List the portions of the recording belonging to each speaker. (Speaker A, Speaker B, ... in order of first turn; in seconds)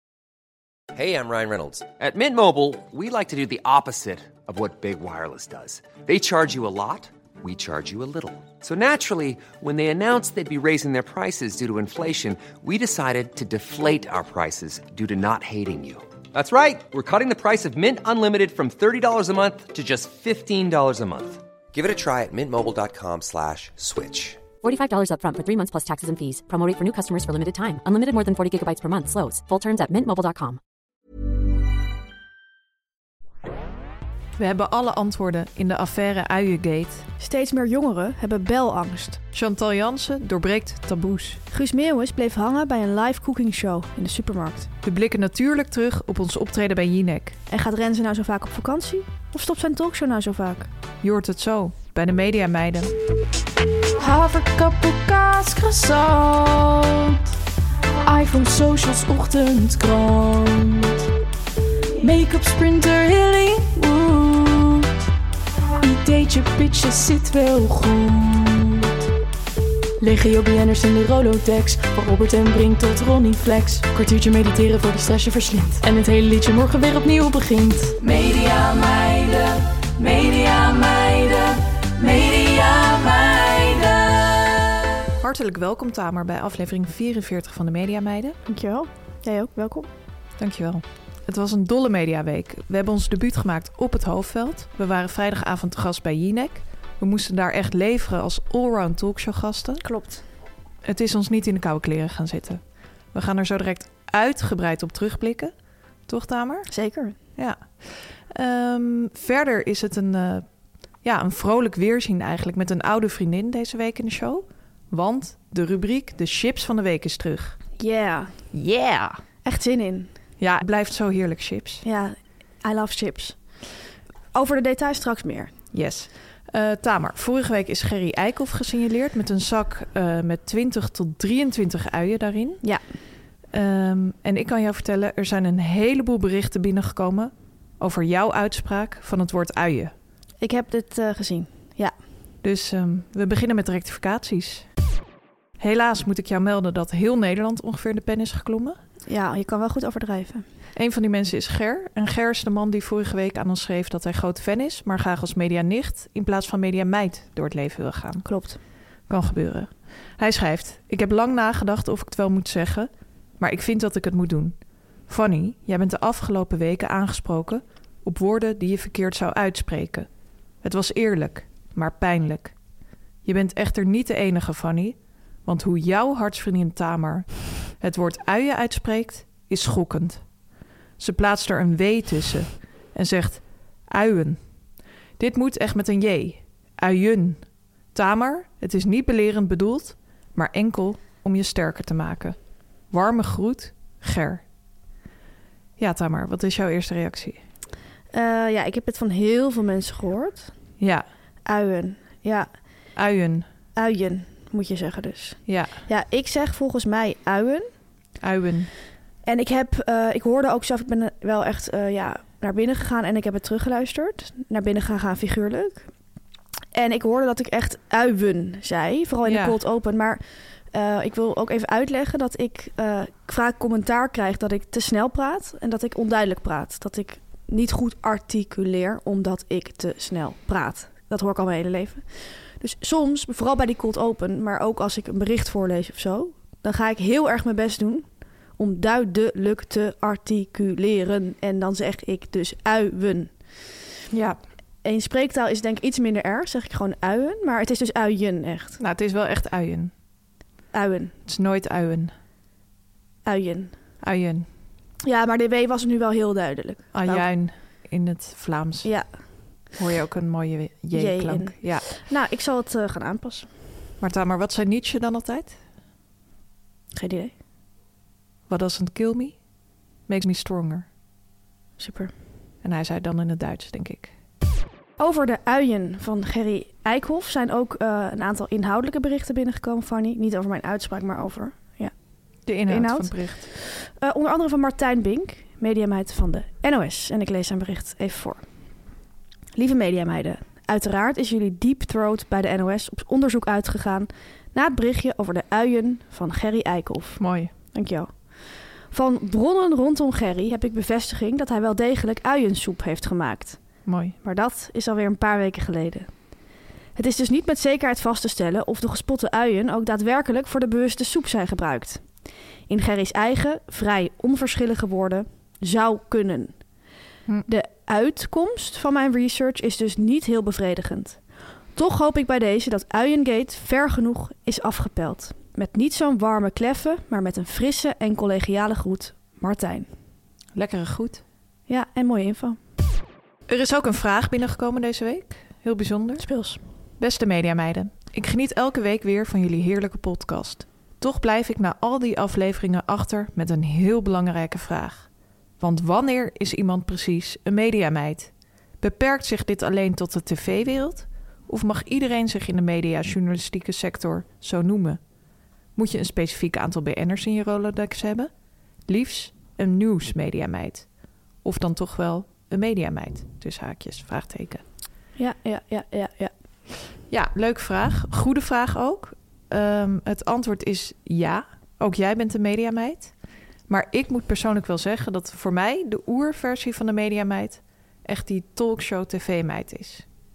Speaker A: 0.9-24.4
Speaker B: 24.6-30.6
Speaker C: 34.4-37.0, 39.3-41.4, 44.8-47.4, 51.0-52.9, 75.8-77.7, 85.2-88.4, 90.4-99.8, 100.8-102.6, 103.1-105.5, 106.1-106.7, 107.3-110.5, 111.0-117.6, 118.5-119.1, 120.4-121.8, 125.7-132.6, 133.5-139.9, 142.4-144.7, 145.6-148.8, 150.7-158.2, 159.1-164.5, 165.1-170.1, 170.6-172.5, 173.2-180.2, 181.0-184.4, 185.2-192.4, 192.9-194.4, 195.8-197.4, 200.8-201.1, 202.9-203.5, 205.5-205.8, 208.2-208.7, 219.2-219.6, 244.1-244.4, 248.8-249.9, 251.2-252.1, 254.0-254.5, 256.9-258.9, 259.8-261.9, 264.0-265.6, 268.5-269.4, 270.1-270.9, 272.6-274.1, 282.4-283.4, 297.2-297.5, 303.9-304.1, 330.5-331.2, 333.5-336.2, 337.0-345.1, 345.6-355.0, 355.8-358.3, 358.9-360.9, 361.4-364.6, 367.1-373.1, 373.7-380.0
Speaker D: 37.2-39.2, 41.5-44.7, 47.5-50.7, 88.5-89.9, 99.8-100.2, 106.7-107.2, 117.8-118.5, 119.4-120.1, 121.8-123.4, 124.3-125.5, 140.4-141.9, 149.1-150.4, 158.2-158.6, 198.1-200.5, 201.4-202.5, 203.7-207.7, 209.2-215.9, 216.7-243.6, 244.8-248.8, 250.7-251.1, 253.2-253.7, 255.0-257.2, 260.9-263.5, 266.9-267.3, 271.8-272.1, 275.0-281.9, 282.6-288.4, 289.5-297.2, 297.7-298.3, 298.9-303.6, 304.2-306.1, 306.9-312.0, 312.7-316.5, 317.5-321.2, 321.7-329.9, 331.7-332.6, 336.2-336.6, 365.2-366.3
Speaker E: 54.1-56.2, 58.1-60.4, 65.9-66.6, 70.2-72.0, 73.5-74.6, 78.0-79.4, 80.0-81.4, 82.0-83.7